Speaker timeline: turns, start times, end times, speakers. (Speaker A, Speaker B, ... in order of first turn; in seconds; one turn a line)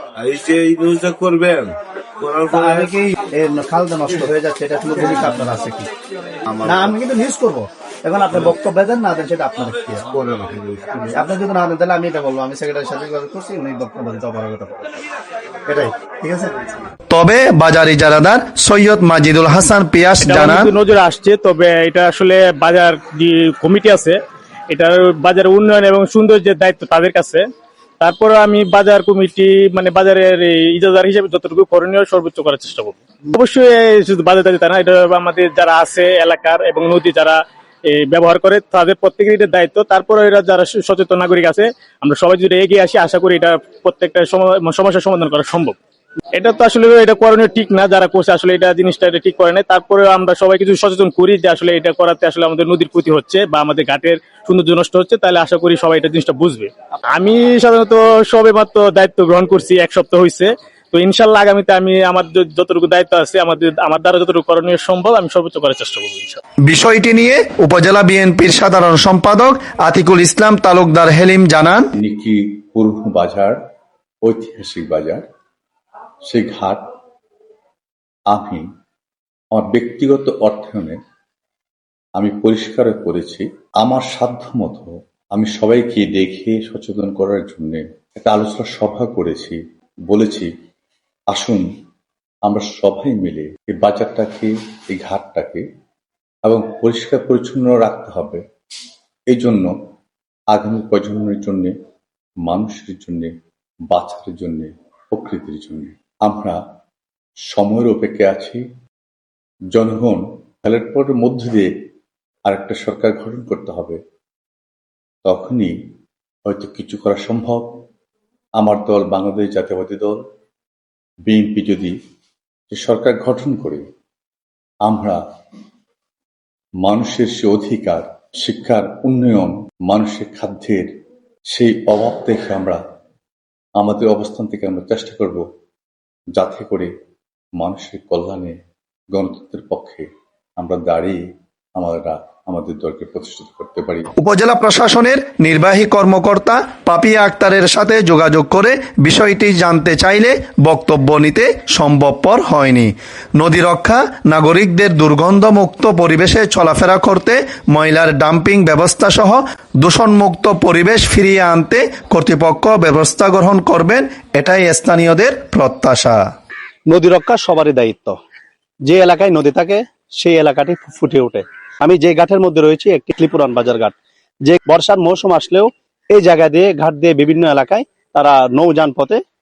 Speaker A: 0.2-3.0
Speaker B: 2.5-5.9
Speaker A: 6.6-6.9
Speaker B: 6.6-10.0
Speaker A: 10.1-11.1
Speaker B: 11.1-14.8
Speaker B: 15.7-16.9
Speaker C: 17.1-20.7
Speaker D: 20.2-24.2
Speaker D: 24.7-27.4
Speaker D: 28.0-45.8
Speaker D: 46.3-66.4
Speaker C: 66.7-71.9
Speaker E: 72.0-73.6
Speaker E: 74.2-75.2
Speaker E: 76.3-76.8
Speaker E: 78.3-78.7
Speaker E: 79.5-81.0
Speaker E: 82.2-89.6
Speaker E: 90.1-90.5
Speaker E: 91.3-91.7
Speaker E: 92.5-95.6
Speaker E: 96.4-98.4
Speaker E: 99.3-99.7
Speaker E: 100.5-101.7
Speaker E: 102.4-103.3
Speaker E: 103.9-106.6
Speaker E: 107.5-108.6
Speaker E: 109.7-111.7
Speaker E: 112.5-114.0
Speaker E: 115.2-115.7
Speaker E: 116.5-117.7
Speaker E: 118.6-120.2
Speaker E: 121.3-121.9
Speaker E: 122.7-123.8
Speaker E: 124.8-125.2
Speaker E: 126.8-130.9
Speaker E: 131.5-132.8
Speaker E: 133.8-135.4
Speaker E: 136.3-136.9
Speaker E: 137.6-138.6
Speaker E: 139.1-140.1
Speaker E: 140.6-141.2
Speaker E: 141.8-144.1
Speaker C: 144.2-166.2
Speaker B: 166.9-168.2
Speaker B: 168.8-173.9
Speaker B: 174.4-179.2